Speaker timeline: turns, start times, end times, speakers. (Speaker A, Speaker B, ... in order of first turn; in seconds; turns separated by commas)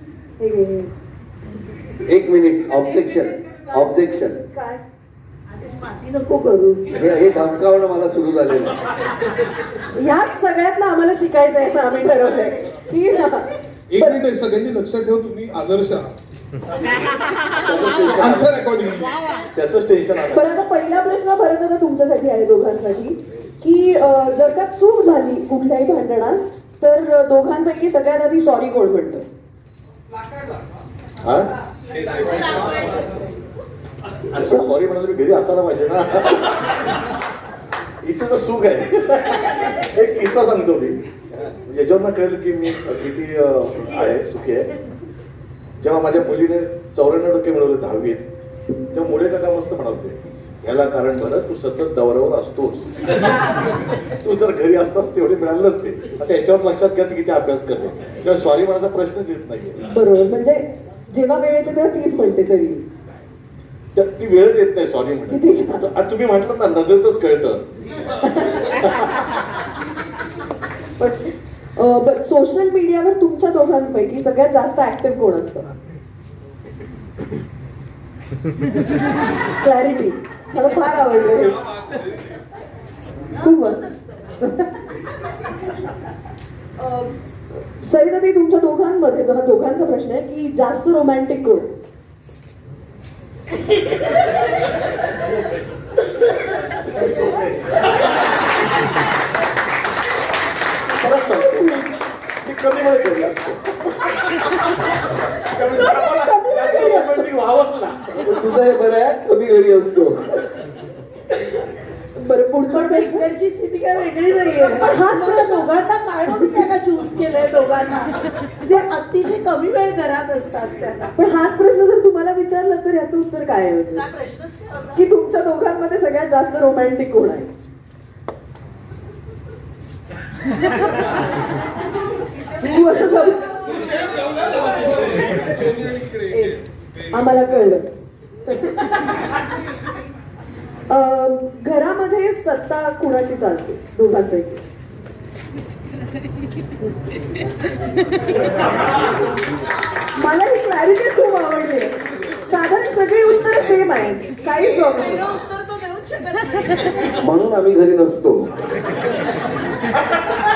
Speaker A: 0.4-0.9, Speaker B: 2.0-4.4, Speaker A: 3.5-4.8, Speaker C: 5.5-6.8, Speaker A: 6.5-6.8, Speaker B: 6.9-8.8, Speaker A: 9.9-14.2, Speaker D: 13.9-16.1, Speaker E: 17.5-18.6, Speaker D: 18.0-19.2, Speaker E: 19.4-20.5, Speaker A: 20.3-29.2, Speaker E: 31.2-31.5, Speaker C: 31.9-33.3, Speaker D: 32.1-32.9, Speaker E: 34.3-36.5, Speaker E: 38.0-44.7, Speaker E: 45.8-48.2, Speaker E: 48.9-53.0, Speaker E: 54.0-59.8, Speaker A: 59.9-62.8, Speaker E: 63.9-67.7, Speaker A: 65.3-65.9, Speaker A: 68.2-69.0, Speaker A: 71.0-75.7, Speaker A: 79.6-81.6, Speaker D: 81.2-82.4, Speaker C: 83.3-84.5, Speaker A: 83.4-83.8, Speaker A: 84.4-84.7, Speaker A: 86.8-87.1, Speaker A: 87.8-91.7, Speaker E: 96.9-97.7, Speaker E: 101.0-101.8, Speaker A: 101.2-101.8, Speaker E: 102.4-103.9, Speaker E: 105.5-108.2, Speaker A: 105.6-107.3, Speaker B: 108.2-110.4, Speaker A: 112.2-113.3, Speaker C: 112.7-121.1, Speaker A: 114.8-115.7, Speaker A: 116.3-116.6, Speaker A: 121.2-124.1, Speaker C: 123.9-125.0, Speaker A: 124.9-127.5, Speaker A: 132.6-133.7, Speaker D: 133.8-136.6, Speaker A: 136.3-136.6, Speaker A: 137.1-137.9, Speaker A: 138.5-139.0, Speaker A: 140.9-144.6, Speaker A: 150.2-155.3, Speaker C: 154.4-157.2, Speaker B: 157.2-158.5